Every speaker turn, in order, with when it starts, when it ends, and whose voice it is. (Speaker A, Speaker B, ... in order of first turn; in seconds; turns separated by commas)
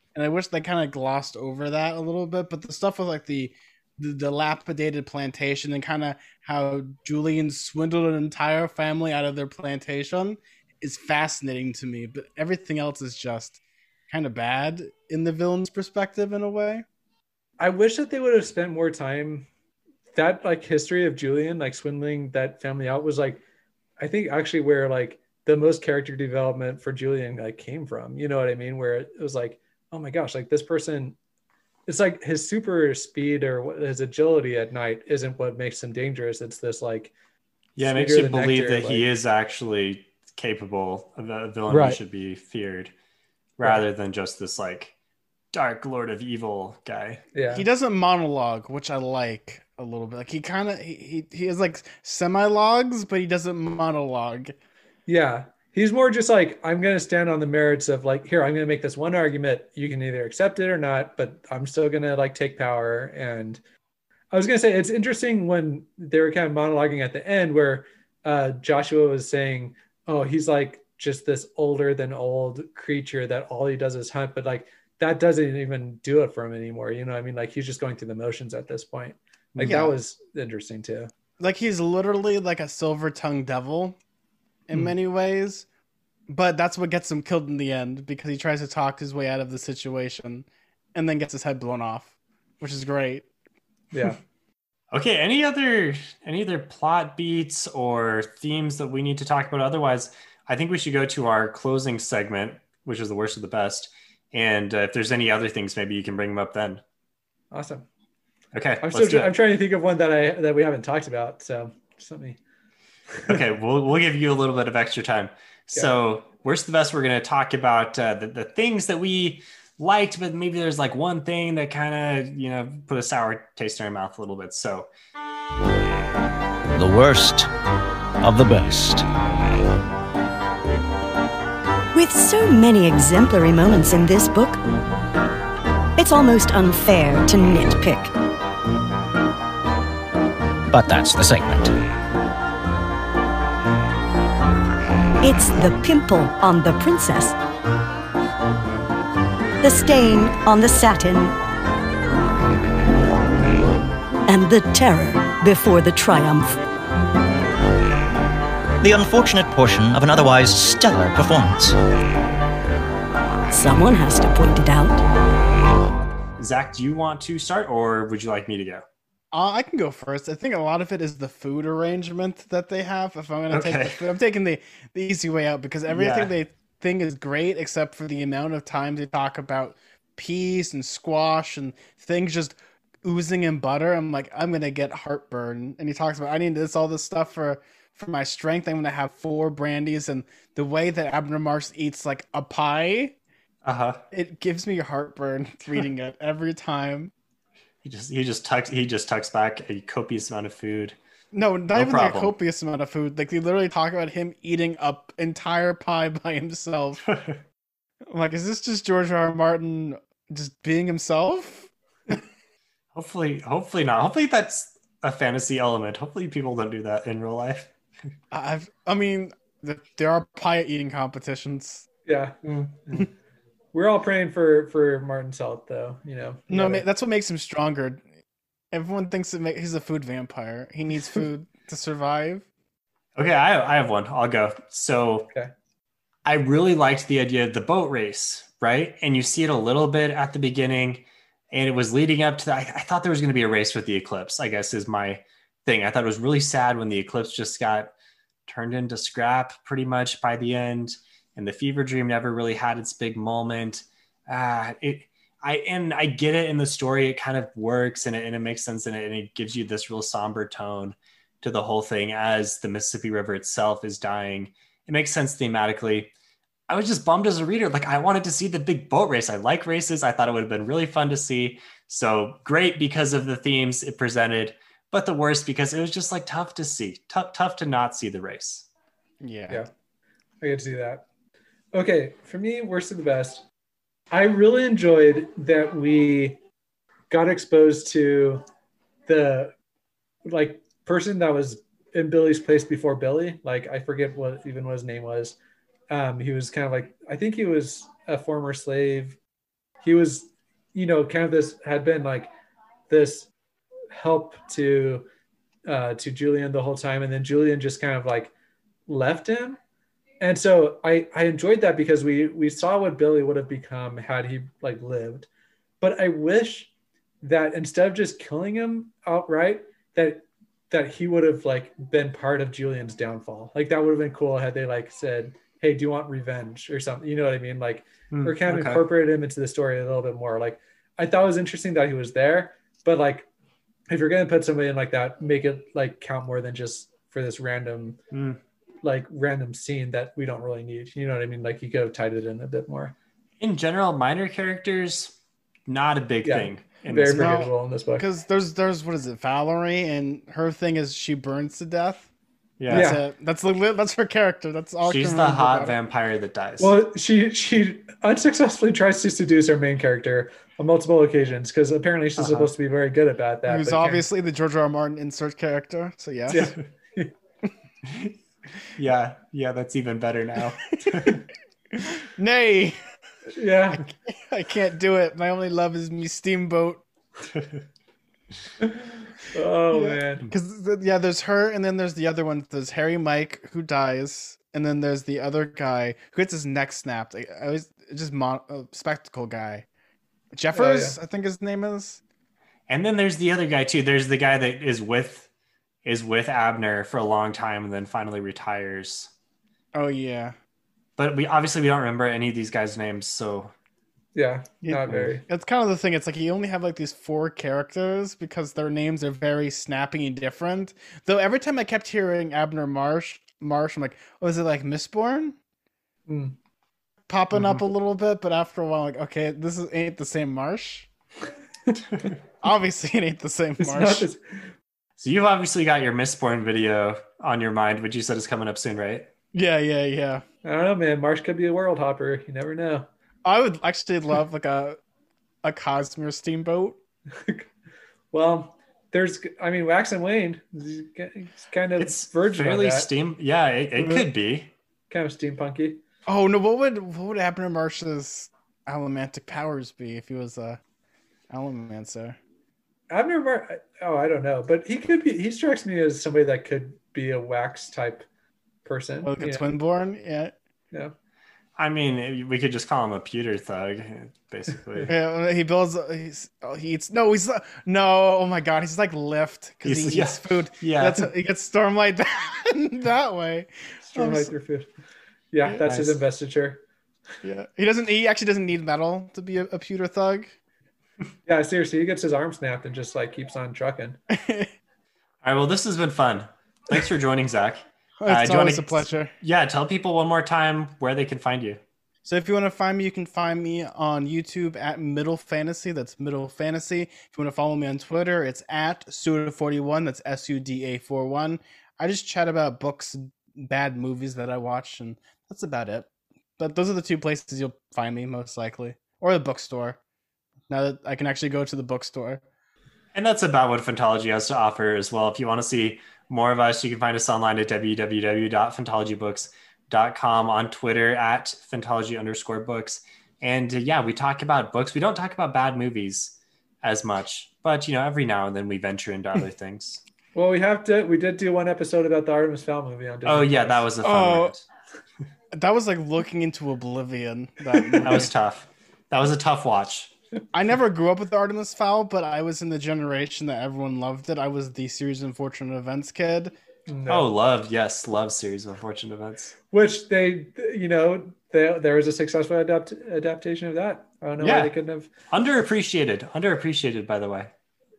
Speaker A: 0.1-16.9, Speaker B: 17.6-19.5, Speaker B: 20.1-23.4, Speaker B: 24.0-31.2, Speaker B: 31.9-37.1, Speaker C: 37.8-42.9, Speaker B: 37.8-39.0, Speaker B: 41.7-42.0, Speaker C: 43.6-44.9, Speaker C: 45.5-47.2, Speaker B: 47.3-47.6, Speaker A: 47.5-54.6, Speaker B: 55.1-63.6, Speaker B: 64.3-81.1, Speaker C: 79.5-79.8, Speaker A: 79.6-79.9, Speaker A: 81.4-84.0, Speaker A: 84.7-85.7, Speaker A: 86.3-93.3, Speaker C: 94.9-106.8, Speaker B: 107.5-107.9, Speaker C: 108.5-109.3, Speaker B: 108.8-112.4, Speaker C: 113.3-124.9, Speaker D: 126.8-127.5, Speaker D: 128.2-129.1, Speaker E: 131.9-134.6, Speaker E: 136.0-138.1, Speaker D: 140.7-141.7, Speaker E: 145.2-147.4, Speaker E: 149.6-151.4, Speaker E: 154.3-156.6, Speaker D: 158.8-161.8, Speaker E: 163.5-165.0, Speaker C: 166.4-168.8, Speaker A: 169.3-193.2, Speaker C: 173.5-174.0, Speaker C: 175.9-176.3, Speaker C: 193.6-194.0, Speaker A: 194.1-197.1, Speaker C: 197.8-201.0, Speaker A: 201.3-207.0, Speaker C: 201.8-202.3, Speaker C: 207.1-207.4, Speaker A: 208.1-212.2, Speaker C: 212.9-217.7, Speaker A: 218.3-221.9, Speaker B: 222.1-223.1, Speaker B: 223.7-226.9, Speaker A: 226.5-228.0, Speaker A: 228.7-232.5, Speaker C: 233.2-235.3, Speaker C: 236.2-247.9, Speaker C: 248.5-266.1, Speaker C: 266.7-278.7, Speaker A: 279.2-279.6, Speaker B: 280.4-281.1, Speaker B: 281.7-283.4, Speaker B: 284.1-286.4, Speaker B: 287.1-288.4, Speaker B: 289.1-289.5, Speaker B: 290.3-295.4, Speaker B: 295.9-299.2, Speaker B: 299.8-302.3, Speaker B: 302.9-303.3, Speaker B: 303.9-305.1, Speaker B: 305.7-308.3, Speaker B: 308.9-309.6, Speaker B: 310.2-315.3, Speaker B: 315.8-333.3, Speaker C: 328.1-328.8, Speaker B: 333.9-338.0, Speaker C: 338.1-338.4, Speaker B: 338.8-342.9, Speaker C: 343.4-345.2, Speaker C: 345.7-347.4, Speaker B: 346.2-348.0, Speaker A: 347.1-352.1, Speaker C: 352.6-352.9, Speaker A: 352.7-355.7, Speaker B: 352.7-353.0, Speaker C: 354.9-356.8, Speaker B: 356.6-364.1, Speaker C: 362.2-362.5, Speaker A: 363.5-366.5, Speaker B: 366.3-367.1, Speaker C: 367.9-368.1, Speaker C: 368.8-371.2, Speaker A: 370.8-371.1, Speaker A: 371.7-372.8, Speaker B: 373.3-373.9, Speaker A: 373.7-376.8, Speaker B: 378.6-380.3, Speaker A: 379.7-389.7, Speaker A: 390.3-392.0, Speaker B: 390.5-391.0, Speaker C: 392.7-395.3, Speaker C: 395.9-399.1, Speaker A: 399.7-400.4, Speaker C: 401.0-403.5, Speaker B: 404.1-405.2, Speaker A: 404.6-415.4, Speaker B: 416.1-416.4, Speaker A: 417.1-420.9, Speaker C: 417.3-417.6, Speaker A: 422.4-424.1, Speaker B: 423.6-424.2, Speaker C: 425.0-429.1, Speaker A: 429.3-430.2, Speaker B: 430.4-432.9, Speaker A: 433.2-434.8, Speaker A: 435.4-436.8, Speaker B: 437.2-437.5, Speaker B: 438.1-442.9, Speaker C: 441.8-444.5, Speaker B: 443.8-444.1, Speaker B: 444.9-445.8, Speaker A: 446.1-450.6, Speaker A: 451.3-452.2, Speaker B: 452.9-458.1, Speaker B: 458.6-459.5, Speaker A: 459.0-460.4, Speaker C: 461.6-464.9, Speaker A: 464.9-474.3, Speaker C: 469.6-471.1, Speaker B: 473.9-474.7, Speaker B: 475.3-476.6, Speaker C: 475.7-475.9, Speaker A: 477.2-480.4, Speaker B: 481.3-484.0, Speaker A: 484.1-484.5, Speaker C: 485.2-491.6, Speaker A: 488.0-489.1, Speaker A: 492.1-509.8, Speaker A: 510.5-512.2, Speaker C: 512.9-529.8, Speaker B: 530.1-533.6, Speaker C: 533.0-534.5, Speaker A: 533.8-534.3, Speaker A: 535.3-538.1, Speaker C: 537.8-539.9, Speaker A: 540.3-546.3, Speaker B: 546.7-547.1, Speaker C: 546.9-549.3, Speaker B: 549.5-554.9, Speaker C: 554.2-554.5, Speaker C: 555.1-557.3